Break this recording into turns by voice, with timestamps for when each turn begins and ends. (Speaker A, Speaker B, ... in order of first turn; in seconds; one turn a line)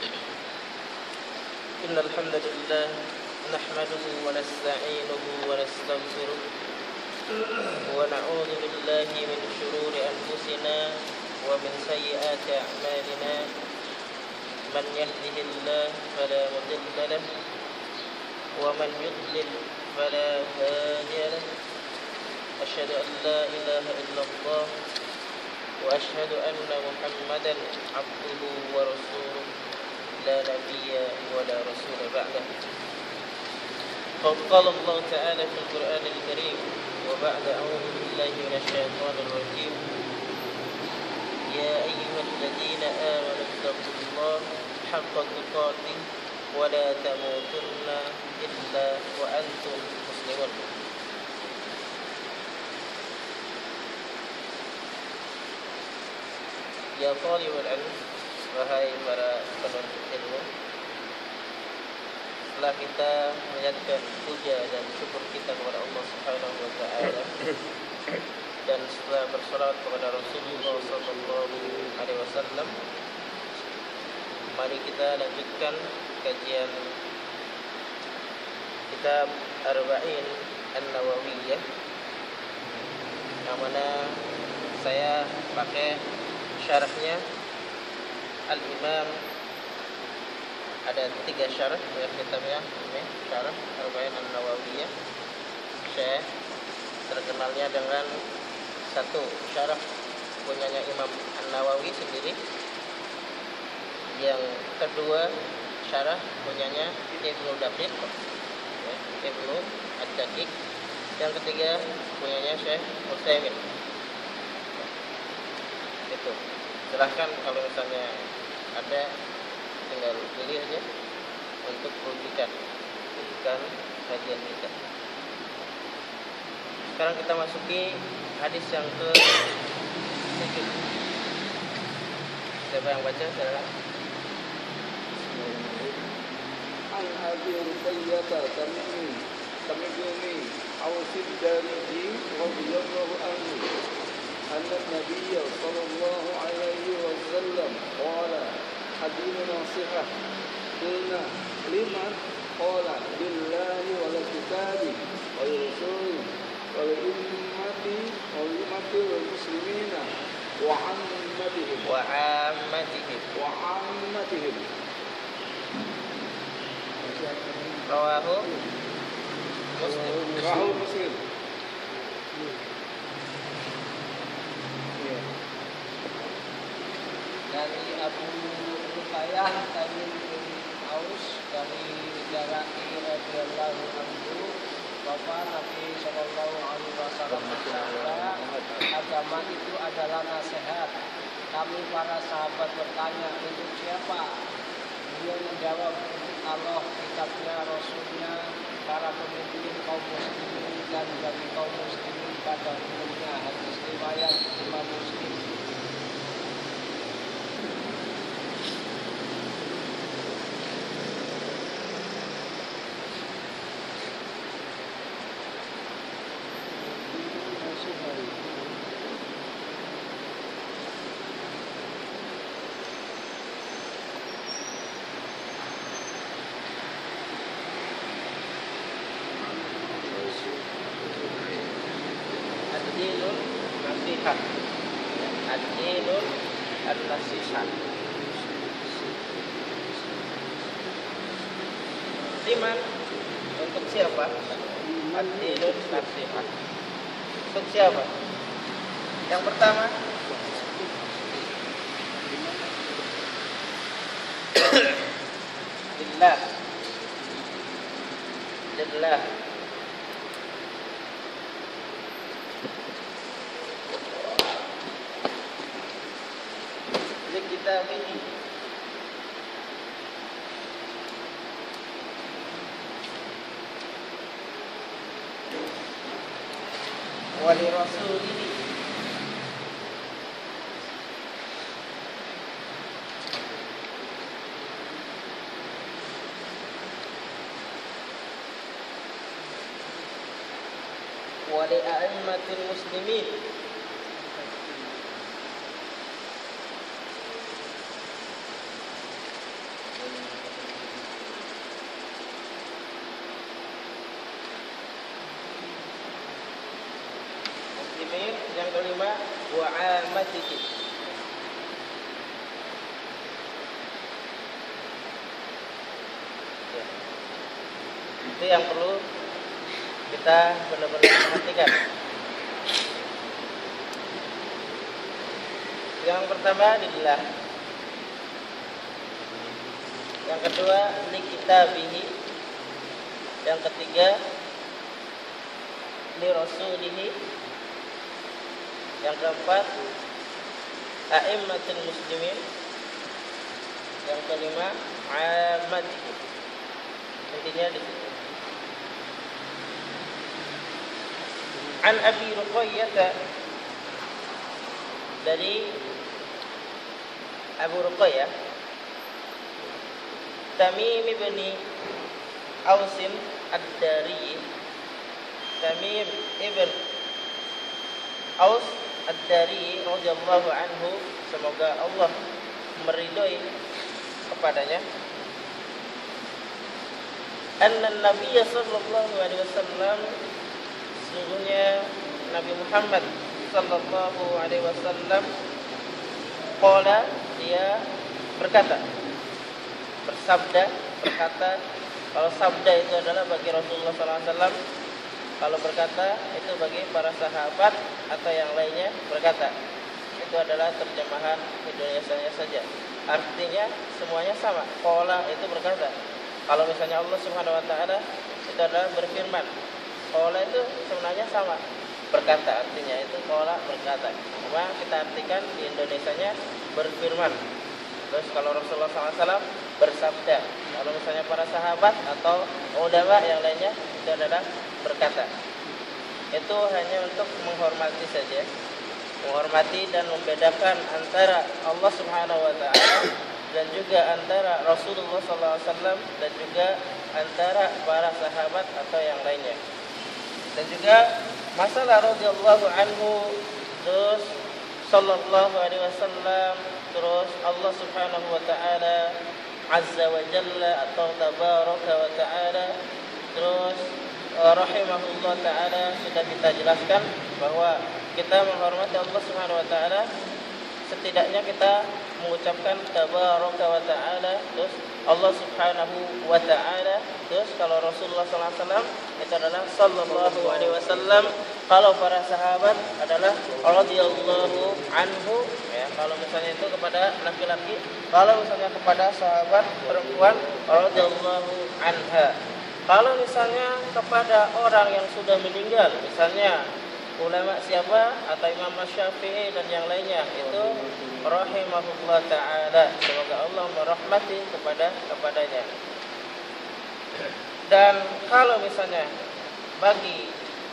Speaker A: 1.8-6.4
Speaker A: 7.8-13.5
Speaker A: 14.7-17.3
Speaker A: 18.6-21.4
Speaker A: 22.6-24.7
Speaker A: 25.8-29.5
Speaker A: 30.2-32.5
Speaker A: 34.2-39.8
Speaker A: 41.5-46.0
Speaker A: 46.5-50.6
Speaker A: 57.0-60.5
Speaker A: 62.5-67.3
Speaker A: 68.7-72.7
Speaker A: 74.5-76.8
Speaker A: 78.9-81.6
Speaker A: 83.5-84.2
Speaker A: 84.8-86.0
Speaker A: 86.6-87.2
Speaker A: 88.5-89.2
Speaker A: 90.9-94.9
Speaker A: 95.8-96.3
Speaker A: 97.1-98.1
Speaker A: 98.9-99.8
Speaker A: 100.5-102.4
Speaker A: 104.1-105.3
Speaker A: 105.8-108.1
Speaker A: 108.8-110.5
Speaker A: 111.2-113.6
Speaker A: 116.1-116.4
Speaker A: 116.9-118.2
Speaker A: 118.8-119.1
Speaker A: 119.9-120.8
Speaker A: 121.7-122.5
Speaker A: 123.2-124.8
Speaker A: 127.0-129.4
Speaker A: 130.3-130.8
Speaker A: 132.7-133.7
Speaker B: 135.2-136.1
Speaker B: 136.9-143.7
Speaker B: 144.5-150.1
Speaker B: 150.8-160.1
Speaker B: 160.6-161.9
Speaker A: 161.8-163.3
Speaker B: 163.3-164.7
Speaker C: 167.1-167.8
Speaker A: 167.9-168.5
Speaker A: 169.8-170.2
Speaker C: 169.8-170.7
Speaker B: 169.9-171.2
Speaker C: 177.5-184.5
Speaker C: 185.1-188.4
Speaker B: 187.3-189.0
Speaker C: 188.9-190.9
Speaker C: 191.5-194.3
Speaker C: 195.1-205.4
Speaker C: 217.1-218.6
Speaker B: 229.6-231.7
Speaker A: 232.7-234.4
Speaker A: 235.5-236.3
Speaker A: 236.9-237.7
Speaker A: 242.4-242.8
Speaker A: 243.6-244.4
Speaker B: 244.8-246.0
Speaker A: 245.1-246.5
Speaker C: 245.5-245.8
Speaker A: 247.5-248.1
Speaker A: 249.3-249.9
Speaker B: 250.3-251.4
Speaker B: 252.3-252.9
Speaker A: 256.0-256.4
Speaker A: 258.7-259.3
Speaker A: 267.3-268.2
Speaker A: 277.4-278.6
Speaker A: 291.5-293.4
Speaker A: 307.8-310.7
Speaker A: 318.3-319.0
Speaker A: 320.1-321.8
Speaker A: 326.0-327.2
Speaker A: 330.3-332.1
Speaker A: 333.4-334.2
Speaker A: 336.2-337.2
Speaker A: 339.0-339.7
Speaker A: 341.1-342.4
Speaker A: 344.1-346.2
Speaker A: 347.3-348.1
Speaker A: 351.8-353.1
Speaker A: 355.2-355.7
Speaker A: 357.6-358.3
Speaker A: 360.6-361.6
Speaker A: 362.7-364.4
Speaker A: 365.6-366.8
Speaker A: 368.4-372.1
Speaker A: 372.8-373.4
Speaker A: 374.3-374.9
Speaker A: 377.6-380.1
Speaker A: 381.0-385.3
Speaker A: 386.6-387.8
Speaker A: 388.4-388.8
Speaker A: 390.1-391.6
Speaker A: 392.1-394.6
Speaker A: 395.4-399.6
Speaker A: 400.2-405.9
Speaker A: 406.5-409.5
Speaker A: 410.1-411.6
Speaker A: 412.1-417.4
Speaker A: 418.1-425.3
Speaker A: 426.3-428.5
Speaker A: 429.2-439.6
Speaker A: 440.6-444.4
Speaker A: 444.9-449.1
Speaker A: 449.7-452.7
Speaker A: 453.4-453.8
Speaker A: 454.4-460.1
Speaker A: 460.9-482.4
Speaker B: 470.3-470.9
Speaker B: 480.0-480.6
Speaker A: 482.9-486.6
Speaker A: 487.2-495.7
Speaker A: 497.7-499.1
Speaker A: 499.8-500.3